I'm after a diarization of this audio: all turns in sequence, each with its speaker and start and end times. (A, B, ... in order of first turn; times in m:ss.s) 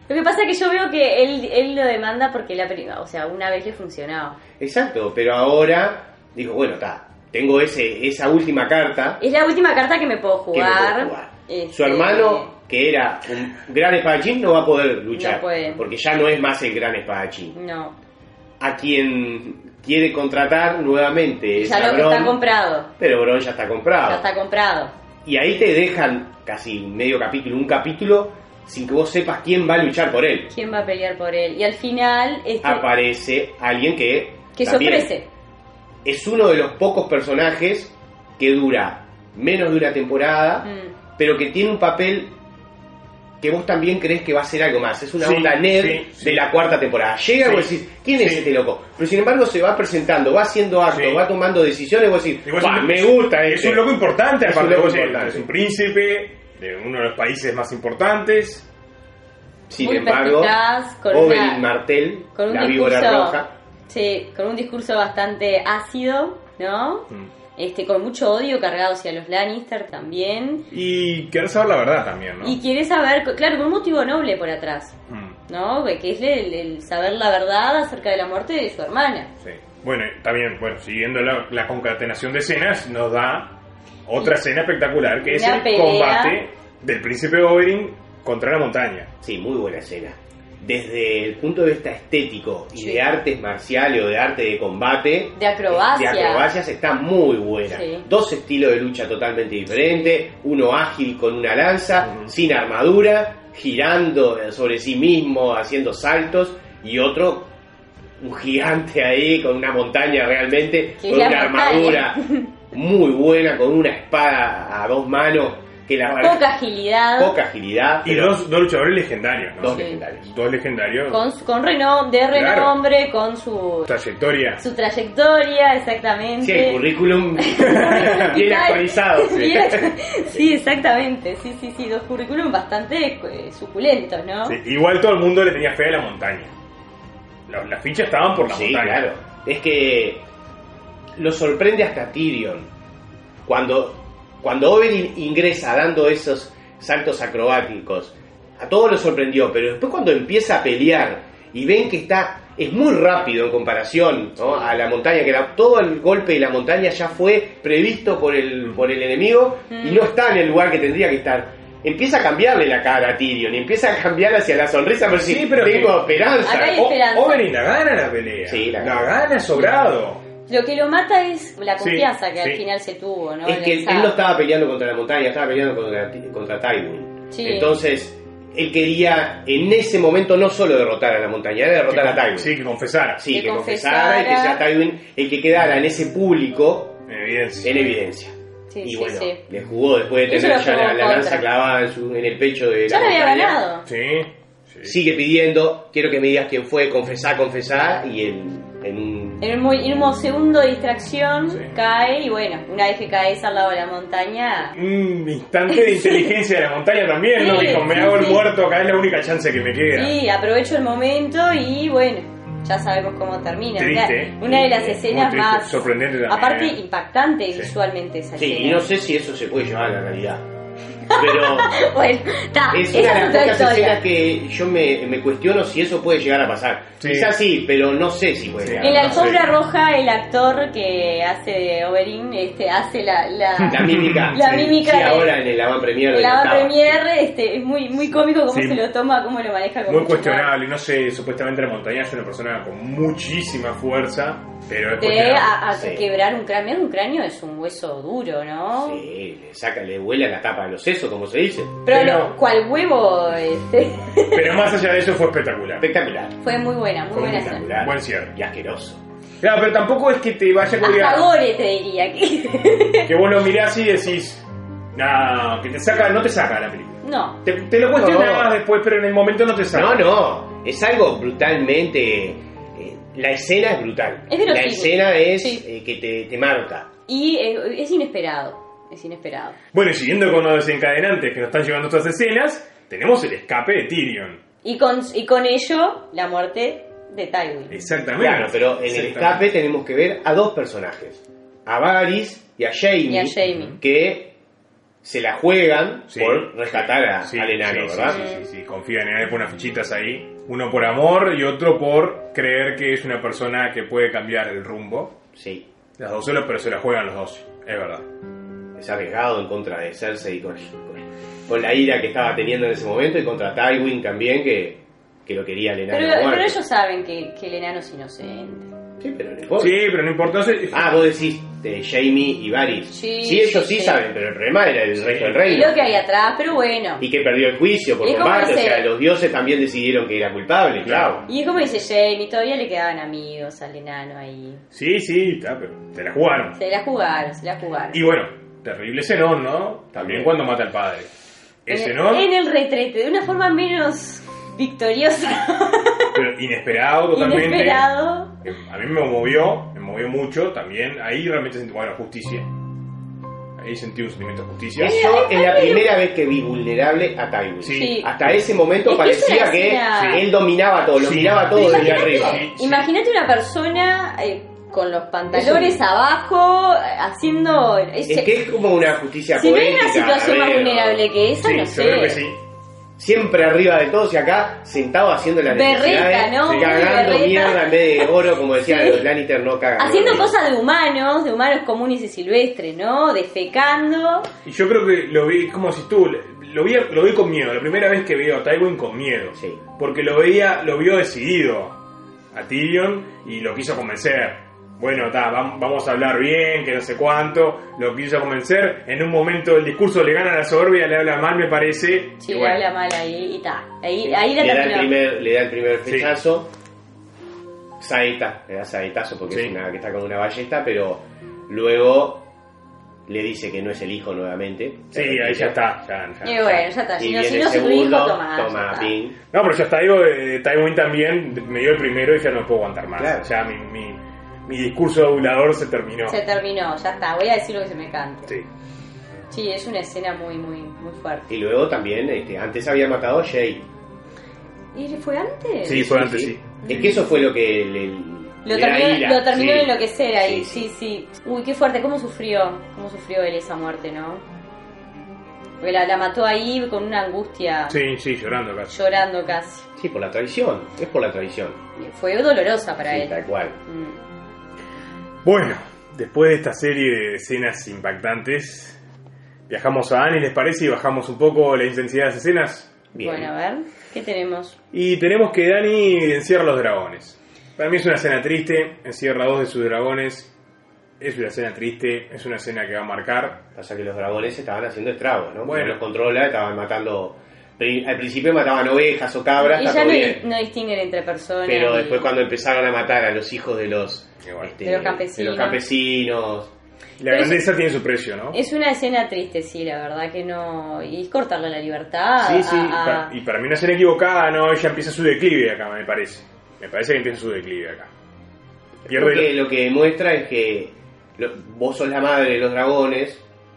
0:00.1-0:04.4 A
0:04.6-0:09.2 B
0:09.2-0:12.5 A
0:10.5-0:17.6 B
0:15.1-0:15.8 A
0:17.5-0:18.0 A
0:18.6-0:22.4 B
0:21.6-0:22.9 A
0:23.0-0:24.3 B
0:24.0-0:24.9 A
0:25.2-0:30.5 B
0:30.5-0:32.9 A
0:32.6-0:35.1 B
0:34.5-0:35.3 A
0:36.0-0:42.4 B
0:40.6-0:40.9 A
0:43.4-0:55.5 B
0:45.2-0:46.5 C
0:47.4-0:48.4 C
0:50.9-0:51.2 C
0:52.4-0:58.7 C
0:59.7-1:00.6 B
0:59.8-1:01.7 A
1:01.1-1:03.5 B
1:02.4-1:10.7 A
1:10.7-1:12.6 C
1:12.4-1:15.0 A
1:15.1-1:15.4 C
1:15.5-1:19.3 A
1:19.4-1:29.1 C
1:25.2-1:26.4 A
1:29.2-1:47.5 B
1:32.8-1:33.0 A
1:35.4-1:36.5 A
1:37.7-1:38.0 A
1:42.0-1:42.3 C
1:48.2-1:56.5 B
1:51.0-1:52.5 A
1:56.2-1:57.4 A
1:57.2-1:58.4 B
1:58.0-2:01.2 C
1:59.6-2:00.3 B
1:59.7-2:00.0 A
2:01.1-2:03.9 A
2:02.3-2:02.8 C
2:03.9-2:04.6 C
2:04.6-2:06.8 A
2:06.4-2:09.9 B
2:07.4-2:14.6 A
2:07.6-2:08.4 C
2:14.5-2:16.5 C
2:17.5-2:19.1 C
2:18.5-2:20.2 B
2:21.2-2:22.7 B
2:23.5-2:46.8 B
2:39.7-2:40.1 A
2:45.2-2:50.2 C
2:46.4-2:47.4 A
2:48.4-2:49.2 B
2:50.5-2:54.2 A
2:51.8-2:52.6 C
2:53.4-3:02.6 B
2:57.3-2:57.8 A
3:01.9-3:03.2 C
3:03.2-3:07.0 B
3:03.3-3:04.6 A
3:07.1-3:07.8 C
3:07.6-3:13.6 B
3:08.7-3:09.4 A
3:10.3-3:11.4 A
3:12.9-3:13.9 A
3:13.9-3:15.0 C
3:14.8-3:19.4 B
3:19.4-3:24.8 A
3:21.5-3:21.8 C
3:24.8-3:30.2 C
3:25.7-3:26.3 A
3:27.4-3:28.4 A
3:29.9-3:38.9 A
3:33.8-3:36.8 C
3:38.4-3:40.4 B
3:41.1-3:41.7 B
3:41.1-3:44.0 A
3:42.7-3:49.4 B
3:47.0-3:47.3 C
3:48.6-3:49.4 C
3:48.8-3:55.4 A
3:53.6-3:54.4 C
3:53.7-3:57.0 B
3:56.1-4:00.5 A
3:58.5-3:58.8 C
3:59.9-4:05.5 C
4:05.0-4:09.1 A
4:05.7-4:06.0 B
4:08.7-4:11.9 B
4:11.9-4:14.6 A
4:11.9-4:12.3 C
4:14.3-4:15.9 C
4:15.8-4:16.4 B
4:16.4-4:17.7 A
4:17.1-4:18.3 C
4:17.1-4:19.0 B
4:19.4-4:21.3 C
4:20.8-4:23.1 A
4:23.1-4:24.4 C
4:25.0-4:30.1 C
4:27.0-4:27.4 A
4:28.0-4:28.6 B
4:29.7-4:36.9 B
4:34.3-4:35.6 A
4:37.1-4:39.6 A
4:39.7-4:44.4 C
4:44.6-4:47.7 A
4:47.7-4:49.5 C
4:48.2-4:54.4 B
4:53.1-4:53.8 A
4:53.5-4:53.7 C
4:55.0-4:58.2 B
4:56.1-5:05.2 C
4:58.1-4:58.4 A
5:05.4-5:05.7 B
5:06.0-5:08.0 C
5:08.8-5:16.6 B
5:15.9-5:18.7 A
5:19.0-5:19.8 B
5:19.6-5:21.0 C
5:20.7-5:25.9 B
5:22.9-5:24.0 A
5:25.0-5:25.4 C
5:25.4-5:27.0 A
5:27.0-5:31.2 B
5:28.0-5:28.9 A
5:30.8-5:31.2 C
5:31.3-5:34.6 A
5:34.7-5:36.6 C
5:36.6-5:38.0 A
5:37.9-5:41.1 C
5:39.9-5:40.4 B
5:41.7-5:42.3 C
5:41.7-5:46.1 A
5:46.1-5:47.9 C
5:47.1-5:48.3 A
5:48.4-5:52.5 C
5:53.6-5:55.0 C
5:54.8-6:02.4 B
5:54.8-5:55.9 A
5:57.6-5:58.3 C
5:57.7-5:58.1 A
5:58.8-6:00.2 A
6:01.0-6:02.9 C
6:01.6-6:08.3 A
6:05.3-6:05.8 B
6:08.1-6:11.1 B
6:09.4-6:12.2 A
6:11.4-6:12.4 C
6:13.0-6:20.3 B
6:15.5-6:18.1 A
6:16.4-6:16.8 C
6:18.6-6:19.0 A
6:19.8-6:24.3 A
6:24.4-6:31.8 C
6:29.4-6:29.6 B
6:32.3-6:42.6 C
6:42.2-6:44.9 A
6:44.0-6:46.5 B
6:45.9-6:46.1 C
6:47.8-6:52.3 B
6:53.1-6:55.6 B
6:54.9-6:56.6 C
6:56.2-6:58.9 A
6:57.0-6:59.2 B
6:59.3-7:06.2 C
7:03.0-7:03.3 B
7:06.1-7:08.3 A
7:09.3-7:11.3 A
7:11.3-7:13.6 B
7:14.8-7:15.9 A
7:15.6-7:16.9 C
7:15.7-7:20.7 B
7:16.6-7:17.1 A
7:18.4-7:24.2 A
7:25.6-7:27.8 A
7:27.7-7:28.8 C
7:28.7-7:29.7 A
7:29.8-7:31.6 B
7:31.8-7:34.0 A
7:32.9-7:33.6 B
7:35.2-7:38.8 C
7:39.5-7:42.7 C
7:42.9-7:43.3 B
7:43.0-7:44.6 A
7:44.7-7:50.3 C
7:51.0-7:53.4 C
7:53.6-8:00.2 B
7:55.4-7:55.8 C
7:59.4-8:02.1 A
8:01.5-8:06.5 B
8:04.2-8:04.5 C
8:04.6-8:05.6 A
8:07.0-8:08.4 C
8:07.1-8:07.4 A
8:08.3-8:13.1 A
8:12.2-8:17.9 C
8:18.9-8:23.2 B
8:18.9-8:19.3 C